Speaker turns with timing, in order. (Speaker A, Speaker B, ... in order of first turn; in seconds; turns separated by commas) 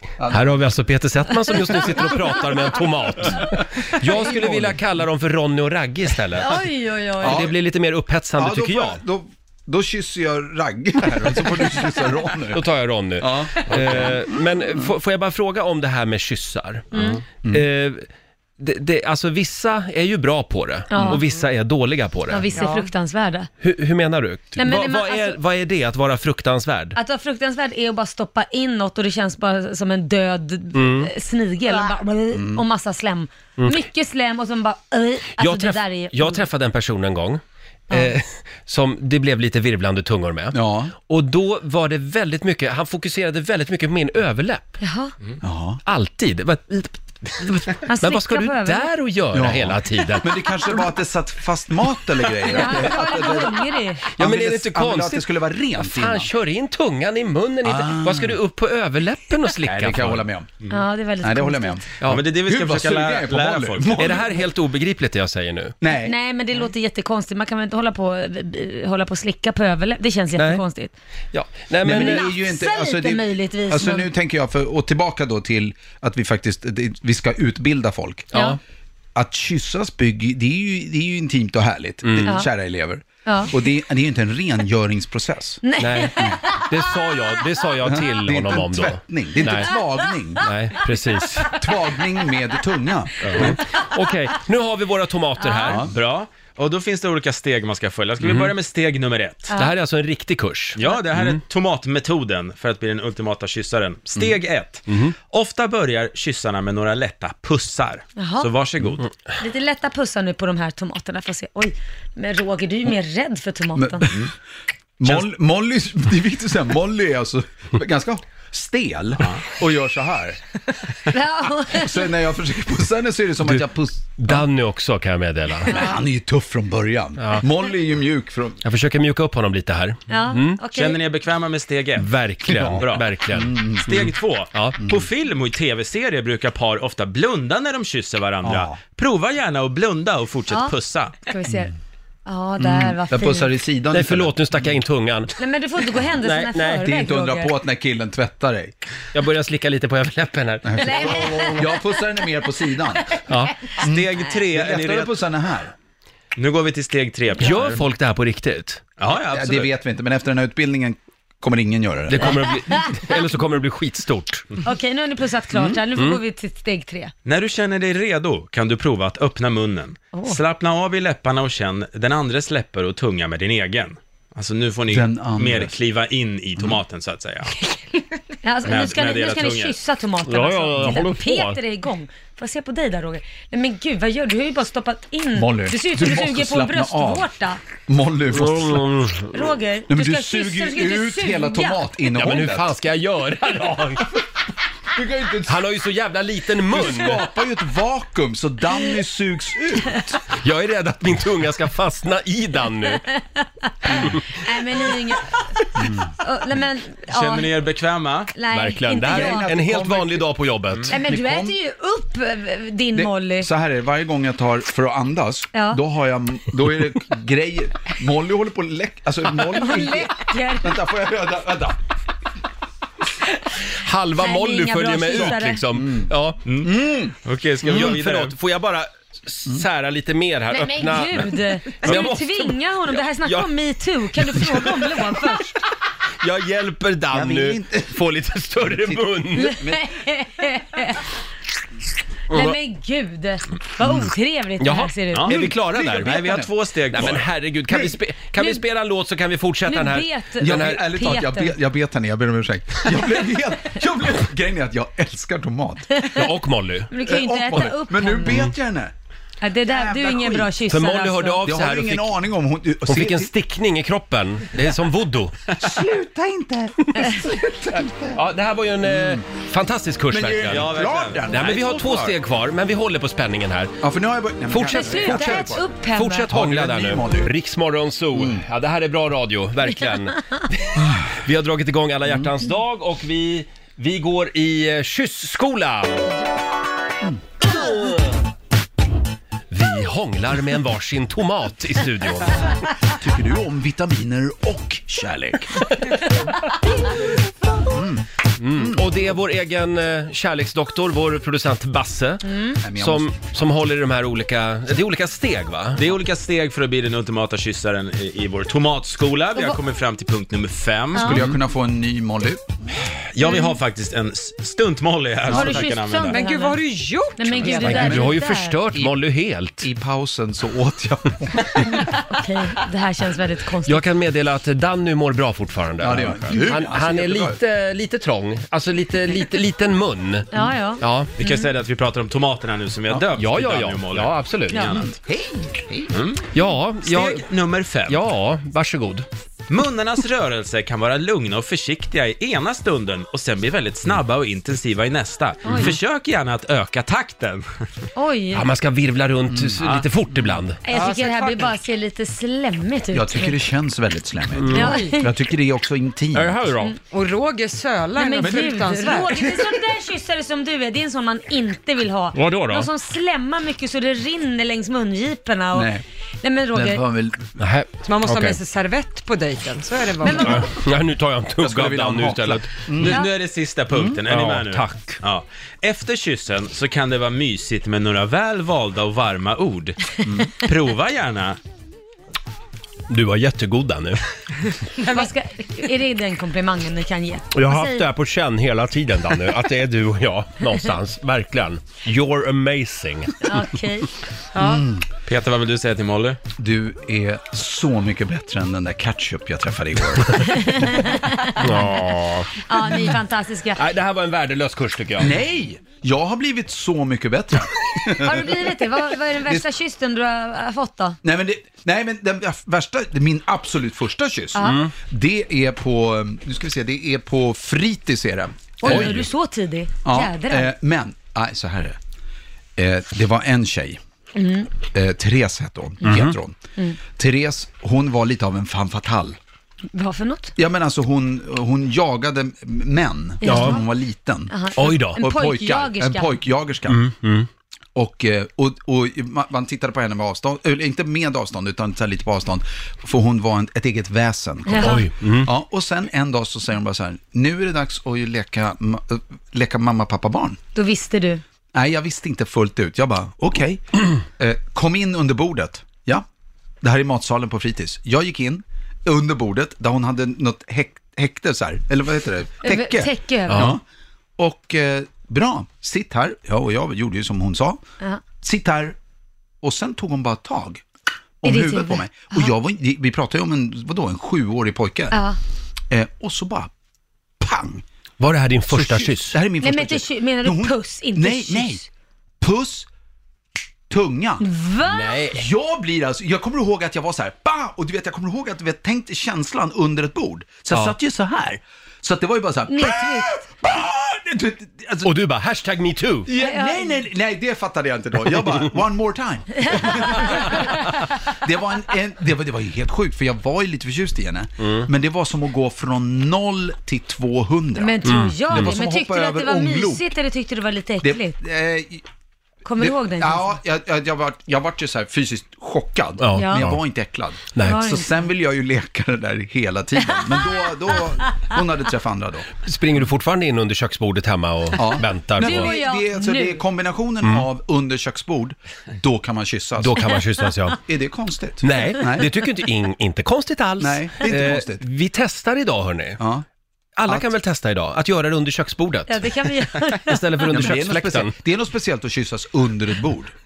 Speaker A: 0.2-0.6, Speaker B: 0.3-6.6, Speaker A: 4.0-4.8, Speaker C: 6.4-7.4, Speaker A: 7.2-7.5, Speaker B: 7.2-9.0, Speaker A: 8.3-12.6, Speaker B: 12.5-18.1, Speaker A: 13.2-14.3, Speaker C: 16.9-17.2, Speaker B: 18.6-22.5, Speaker C: 20.9-21.2, Speaker C: 22.3-23.5, Speaker B: 23.6-27.0, Speaker C: 24.6-25.4, Speaker C: 26.9-36.4, Speaker B: 30.7-31.1, Speaker A: 32.3-32.6, Speaker B: 33.6-33.8, Speaker B: 35.4-44.8, Speaker A: 40.5-40.9, Speaker C: 44.8-45.1, Speaker A: 45.4-45.8, Speaker B: 45.9-50.4, Speaker C: 47.9-48.9, Speaker A: 49.3-56.3, Speaker C: 52.4-54.1, Speaker B: 54.2-55.2, Speaker B: 55.8-60.3, Speaker A: 57.6-58.4, Speaker A: 59.6-60.6, Speaker C: 60.7-61.8, Speaker A: 61.2-61.8, Speaker D: 62.0-64.2, Speaker A: 62.4-64.3, Speaker B: 64.0-65.7, Speaker A: 65.8-66.2, Speaker C: 65.9-70.9, Speaker B: 70.3-70.6, Speaker B: 71.3-72.3, Speaker A: 71.8-78.3, Speaker C: 71.8-74.1, Speaker B: 78.3-78.6, Speaker C: 78.3-78.6, Speaker A: 79.1-85.6, Speaker B: 82.0-82.4, Speaker C: 83.2-83.5, Speaker C: 85.6-86.7, Speaker B: 85.8-89.7, Speaker A: 87.8-90.5, Speaker B: 90.4-91.6, Speaker A: 91.5-93.6, Speaker B: 93.3-95.8, Speaker C: 95.4-95.8, Speaker D: 95.9-99.5, Speaker B: 98.2-98.5, Speaker B: 99.5-101.4, Speaker D: 100.8-109.0, Speaker B: 104.9-105.1, Speaker C: 108.2-108.5, Speaker C: 109.4-114.1, Speaker A: 113.7-114.3, Speaker A: 115.0-120.4, Speaker C: 121.1-122.0, Speaker A: 121.7-124.4, Speaker B: 124.2-125.7, Speaker A: 125.7-128.6, Speaker C: 125.7-126.0, Speaker B: 128.6-130.6, Speaker C: 130.1-131.0, Speaker D: 130.7-133.1, Speaker B: 132.0-133.6, Speaker A: 132.5-134.1, Speaker D: 133.8-141.2, Speaker A: 134.8-135.1, Speaker A: 138.4-138.7, Speaker C: 141.2-141.7, Speaker C: 142.2-143.5, Speaker A: 142.6-144.6, Speaker B: 143.9-145.3, Speaker C: 145.4-147.5, Speaker B: 146.2-146.8, Speaker A: 146.8-148.7, Speaker B: 149.1-151.6, Speaker A: 150.6-153.1, Speaker C: 150.8-151.7, Speaker B: 153.3-153.6, Speaker D: 153.8-155.1, Speaker A: 153.8-155.7, Speaker D: 156.3-157.8, Speaker B: 157.4-158.8, Speaker D: 159.0-159.7, Speaker A: 159.3-162.4, Speaker B: 162.1-164.5, Speaker C: 164.6-167.1, Speaker D: 167.2-177.5, Speaker C: 170.1-170.4, Speaker A: 174.9-175.7, Speaker C: 178.4-187.6, Speaker D: 178.6-179.8, Speaker B: 180.2-181.6, Speaker A: 185.3-187.3, Speaker A: 187.8-188.9, Speaker B: 188.3-189.4, Speaker C: 189.2-191.8, Speaker A: 189.9-192.7, Speaker B: 192.2-194.2, Speaker A: 194.9-195.6, Speaker B: 195.4-197.2, Speaker A: 196.7-200.2, Speaker B: 200.4-203.0, Speaker C: 202.9-207.5, Speaker B: 204.0-204.2, Speaker D: 207.1-208.3, Speaker C: 208.3-209.4, Speaker B: 208.5-210.9, Speaker A: 209.0-210.4, Speaker A: 210.9-211.6, Speaker C: 210.9-213.5, Speaker A: 212.9-221.8, Speaker C: 215.5-215.8, Speaker C: 219.5-220.8, Speaker B: 223.8-226.4, Speaker C: 224.1-225.7, Speaker A: 225.7-227.1, Speaker D: 226.4-228.3, Speaker B: 227.7-233.5, Speaker C: 230.5-235.6, Speaker B: 234.2-235.2, Speaker B: 236.2-239.6, Speaker A: 237.1-238.1, Speaker A: 238.6-239.8, Speaker C: 239.4-241.0, Speaker B: 242.3-242.6, Speaker C: 242.3-245.3, Speaker B: 244.6-246.1, Speaker D: 245.1-247.2, Speaker A: 245.3-246.5, Speaker B: 246.9-250.8, Speaker C: 248.4-248.6, Speaker C: 249.7-251.5, Speaker A: 250.4-255.9, Speaker C: 255.9-256.2, Speaker B: 256.1-256.9, Speaker C: 256.9-258.5, Speaker A: 257.0-258.9, Speaker C: 259.4-261.4, Speaker A: 259.6-260.5, Speaker B: 260.7-262.1, Speaker A: 261.4-263.3, Speaker B: 262.9-265.5, Speaker A: 265.6-268.2, Speaker B: 268.1-270.7, Speaker A: 268.8-269.2, Speaker A: 270.1-272.1, Speaker D: 270.5-271.6, Speaker B: 271.3-273.8, Speaker A: 273.8-275.7, Speaker B: 274.5-286.1, Speaker C: 274.7-276.3, Speaker A: 276.3-277.3, Speaker A: 278.1-278.4, Speaker B: 287.5-288.1, Speaker B: 289.5-292.6, Speaker A: 292.9-295.6, Speaker A: 297.6-298.8, Speaker B: 298.4-305.8, Speaker C: 302.3-302.6, Speaker A: 302.6-303.1, Speaker D: 305.8-311.2, Speaker A: 310.9-312.4, Speaker D: 313.1-316.2, Speaker C: 313.2-313.6, Speaker A: 315.3-315.6, Speaker C: 315.3-316.6, Speaker E: 316.1-317.9, Speaker C: 317.2-318.6, Speaker B: 317.6-319.7, Speaker A: 317.7-318.1, Speaker A: 318.7-319.0, Speaker A: 319.6-321.9, Speaker C: 321.8-323.8, Speaker B: 323.6-331.1, Speaker A: 325.8-327.4, Speaker C: 330.3-331.5, Speaker D: 331.2-334.9, Speaker B: 333.2-334.8, Speaker A: 334.9-335.9, Speaker D: 335.9-336.2, Speaker B: 336.3-337.2, Speaker D: 336.8-338.0, Speaker B: 337.9-339.1, Speaker D: 339.5-347.4, Speaker C: 345.5-345.8, Speaker C: 347.9-348.5, Speaker B: 348.3-350.6, Speaker A: 349.3-349.8, Speaker C: 350.6-353.3, Speaker A: 352.9-356.4, Speaker B: 354.4-354.8, Speaker C: 354.5-355.1, Speaker B: 356.1-356.7, Speaker E: 356.9-359.4, Speaker C: 357.9-365.7, Speaker A: 358.2-358.5, Speaker B: 362.1-362.7, Speaker A: 365.5-365.8, Speaker C: 366.2-366.8, Speaker A: 366.5-367.4, Speaker B: 367.4-368.4, Speaker E: 367.9-370.5, Speaker C: 370.0-370.5, Speaker B: 370.2-372.5, Speaker A: 371.4-373.0, Speaker D: 372.8-381.4, Speaker A: 373.7-374.0, Speaker B: 374.1-375.0, Speaker B: 382.9-384.0, Speaker C: 384.9-387.9, Speaker B: 387.3-393.3, Speaker C: 393.2-393.9, Speaker E: 394.3-394.6, Speaker A: 394.4-394.9, Speaker D: 395.1-396.2, Speaker A: 396.4-400.8, Speaker C: 400.4-401.4, Speaker B: 401.4-402.3, Speaker C: 402.4-403.6, Speaker B: 403.6-405.1, Speaker A: 405.0-408.7, Speaker C: 407.9-411.0, Speaker A: 409.2-409.5, Speaker A: 411.0-419.1, Speaker B: 414.4-414.7, Speaker C: 418.6-420.5, Speaker B: 418.6-419.0, Speaker A: 419.8-421.8, Speaker A: 422.6-423.8, Speaker C: 424.1-424.5, Speaker A: 424.7-429.2, Speaker B: 425.8-426.1, Speaker C: 429.7-430.3, Speaker A: 430.4-436.8, Speaker C: 433.2-433.6, Speaker B: 433.2-433.6, Speaker C: 434.3-436.1, Speaker B: 434.5-435.0, Speaker B: 436.7-437.3, Speaker A: 437.7-450.4, Speaker C: 444.5-444.8, Speaker B: 444.6-445.3, Speaker C: 450.5-451.2, Speaker A: 451.5-456.0, Speaker A: 456.6-463.6, Speaker C: 462.4-463.6, Speaker B: 463.3-463.6, Speaker A: 464.2-467.6, Speaker A: 468.2-468.8, Speaker A: 469.4-470.6, Speaker A: 471.2-475.0, Speaker C: 471.2-472.3, Speaker C: 474.9-475.2, Speaker A: 475.7-476.5, Speaker A: 477.2-477.6, Speaker B: 478.0-479.2, Speaker A: 478.5-481.6, Speaker C: 479.4-481.6, Speaker A: 482.2-482.7, Speaker A: 483.7-484.2, Speaker C: 484.2-485.1, Speaker B: 484.6-485.2, Speaker A: 485.1-494.9, Speaker C: 492.5-493.2, Speaker B: 494.8-496.1, Speaker A: 496.1-509.9, Speaker C: 496.2-496.8, Speaker C: 499.5-500.3, Speaker C: 507.6-511.1, Speaker B: 507.8-508.5, Speaker A: 510.8-511.8, Speaker C: 512.4-513.4, Speaker A: 512.6-522.3, Speaker B: 516.0-516.6, Speaker C: 516.1-516.5, Speaker B: 517.3-517.6, Speaker C: 517.4-517.9, Speaker C: 519.9-520.2, Speaker B: 522.4-525.5, Speaker A: 524.6-529.9, Speaker C: 525.2-526.4, Speaker B: 529.6-530.6, Speaker A: 530.6-532.1, Speaker B: 531.4-536.0, Speaker A: 533.6-534.6, Speaker A: 536.0-536.2, Speaker B: 536.8-539.1, Speaker C: 538.9-540.0, Speaker B: 539.9-541.1, Speaker A: 540.3-543.1